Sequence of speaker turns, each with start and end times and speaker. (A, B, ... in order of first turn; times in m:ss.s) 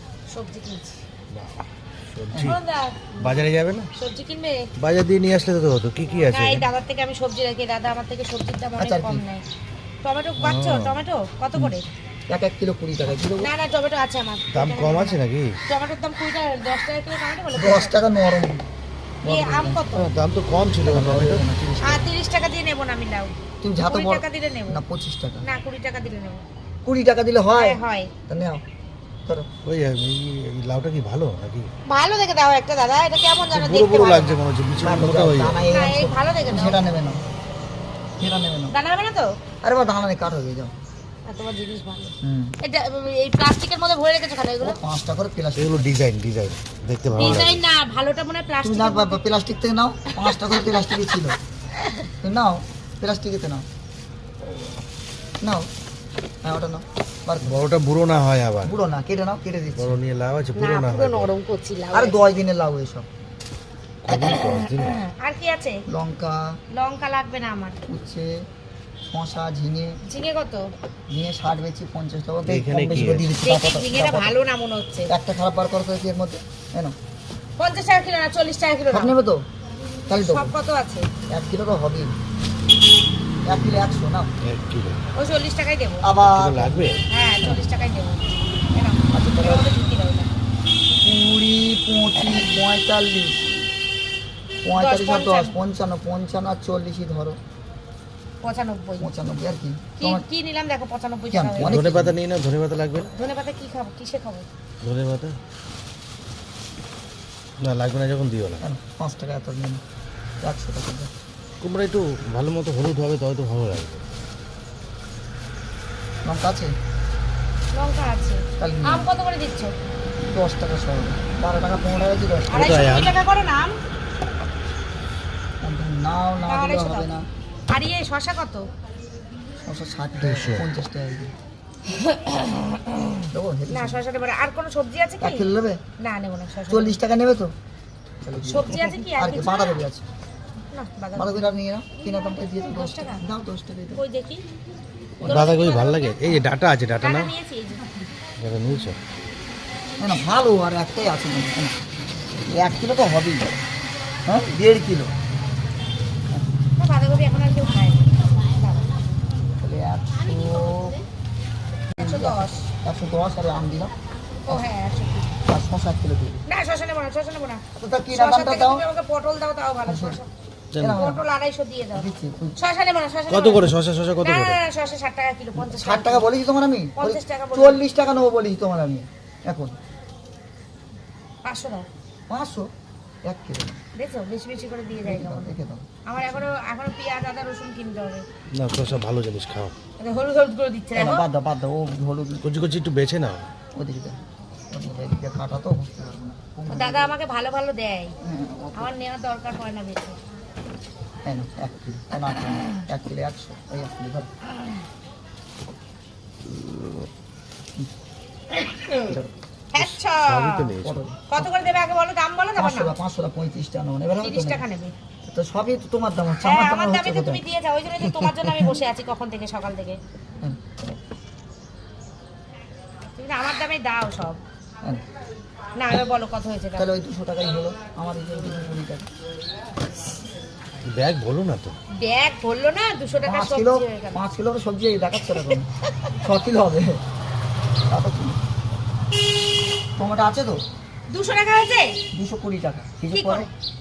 0:00.3-0:01.0 A
0:01.3-0:01.6 B
0:02.1-0:02.6 B
0:02.4-0:03.4 A
0:03.2-0:03.9 B
0:04.0-0:04.6 A
0:04.8-0:06.6 B
0:06.2-0:09.4 A
0:08.8-0:09.2 C
0:10.0-0:11.8 A
0:10.4-0:11.0 B
0:12.3-0:13.5 C
0:13.4-0:18.0 A
0:14.5-0:15.6 B
0:17.5-0:18.6 C
0:19.2-0:19.8 C
0:19.2-0:20.1 A
0:19.9-0:21.4 B
0:20.8-0:22.1 C
0:21.8-0:23.3 A
0:23.6-0:25.4 C
0:23.8-0:24.8 A
0:25.4-0:26.4 A
0:26.8-0:28.6 C
0:27.6-0:28.1 A
0:29.6-0:31.7 B
0:31.9-0:34.4 A
0:33.5-0:35.6 B
0:34.8-0:37.2 C
0:35.7-0:36.8 A
0:38.2-0:38.7 C
0:38.7-0:39.3 A
0:39.6-0:40.7 C
0:41.2-0:44.8 A
0:42.2-0:42.6 C
0:44.6-0:45.9 C
0:45.6-0:47.6 B
0:47.2-0:49.2 A
0:48.6-0:51.4 C
0:50.2-0:50.9 A
0:51.8-0:52.1 A
0:52.2-0:53.6 C
0:54.4-0:54.7 B
0:55.4-0:55.7 C
0:56.4-0:57.7 C
0:57.4-0:58.8 B
0:58.6-1:00.0 C
0:59.8-1:01.3 B
1:00.6-1:02.2 A
1:01.9-1:03.1 C
1:04.0-1:05.0 B
1:04.1-1:05.8 A
1:05.9-1:06.6 C
1:06.7-1:07.8 A
1:07.9-1:08.4 C
1:09.0-1:10.0 C
1:10.0-1:10.7 A
1:11.1-1:14.3 C
1:12.5-1:13.4 B
1:13.4-1:15.1 A
1:15.1-1:16.9 C
1:17.6-1:19.1 A
1:18.9-1:19.4 C
1:20.1-1:20.5 C
1:20.1-1:21.0 A
1:21.3-1:22.1 C
1:23.4-1:24.3 C
1:24.4-1:25.0 B
1:25.2-1:26.1 A
1:26.0-1:27.6 C
1:26.2-1:27.0 B
1:27.1-1:30.3 A
1:29.1-1:29.7 C
1:31.0-1:33.6 C
1:34.6-1:37.4 C
1:34.7-1:35.5 A
1:38.4-1:39.1 A
1:39.0-1:40.2 C
1:40.0-1:41.8 A
1:41.3-1:42.2 C
1:41.6-1:43.1 B
1:43.1-1:44.4 A
1:44.8-1:45.4 B
1:47.6-1:48.6 B
1:48.6-1:49.8 C
1:50.4-1:51.1 C
1:51.6-1:54.0 B
1:56.2-1:56.7 C
1:57.7-1:59.7 A
1:58.6-1:59.1 C
2:00.2-2:02.7 C
2:02.5-2:03.8 A
2:02.5-2:03.2 B
2:05.6-2:07.3 C
2:06.4-2:07.1 A
2:07.7-2:08.6 A
2:09.6-2:11.3 C
2:10.2-2:10.7 B
2:11.9-2:17.0 A
2:13.3-2:14.0 C
2:15.2-2:15.8 C
2:16.7-2:17.5 C
2:18.2-2:20.0 C
2:18.5-2:19.8 A
2:20.7-2:21.4 A
2:21.1-2:24.0 C
2:22.0-2:23.2 A
2:24.0-2:24.4 A
2:25.2-2:25.6 C
2:25.2-2:26.2 A
2:25.2-2:27.3 B
2:27.0-2:27.8 A
2:28.4-2:29.0 B
2:30.0-2:31.8 C
2:32.5-2:33.5 C
2:34.2-2:35.1 C
2:36.8-2:38.9 A
2:39.6-2:41.0 C
2:41.9-2:43.9 C
2:42.0-2:42.7 A
2:44.5-2:45.3 A
2:45.5-2:46.4 C
2:46.5-2:47.6 A
2:47.7-2:48.8 C
2:48.1-2:50.3 A
2:49.8-2:50.2 C
2:50.7-2:51.0 B
2:50.8-2:51.2 C
2:51.0-2:56.2 A
2:51.9-2:52.6 C
2:53.3-2:54.6 B
2:55.6-2:59.7 C
2:57.0-2:57.8 A
3:01.4-3:01.8 A
3:02.3-3:02.7 C
3:03.2-3:03.8 C
3:04.0-3:05.5 A
3:05.0-3:06.5 C
3:06.0-3:08.2 A
3:08.5-3:09.7 B
3:10.0-3:11.2 A
3:10.9-3:12.4 C
3:12.4-3:13.5 B
3:13.7-3:14.2 C
3:14.7-3:17.1 C
3:16.7-3:18.1 A
3:18.2-3:18.9 C
3:18.8-3:20.1 A
3:21.2-3:24.3 C
3:29.0-3:29.3 C
3:29.7-3:30.7 A
3:29.7-3:31.0 B
3:30.7-3:31.5 C
3:31.3-3:33.0 A
3:32.6-3:34.6 C
3:34.2-3:34.9 A
3:35.2-3:37.4 C
3:36.4-3:40.0 A
3:38.1-3:38.5 B
3:43.2-3:44.4 A
3:45.8-3:46.9 A
3:46.8-3:49.1 C
3:50.8-3:51.7 B
3:52.0-3:54.2 A
3:53.2-3:55.6 C
3:56.2-3:57.0 C
3:57.9-3:58.4 C
4:00.0-4:00.6 C
4:01.1-4:02.0 A
4:02.1-4:03.5 C
4:03.1-4:03.5 A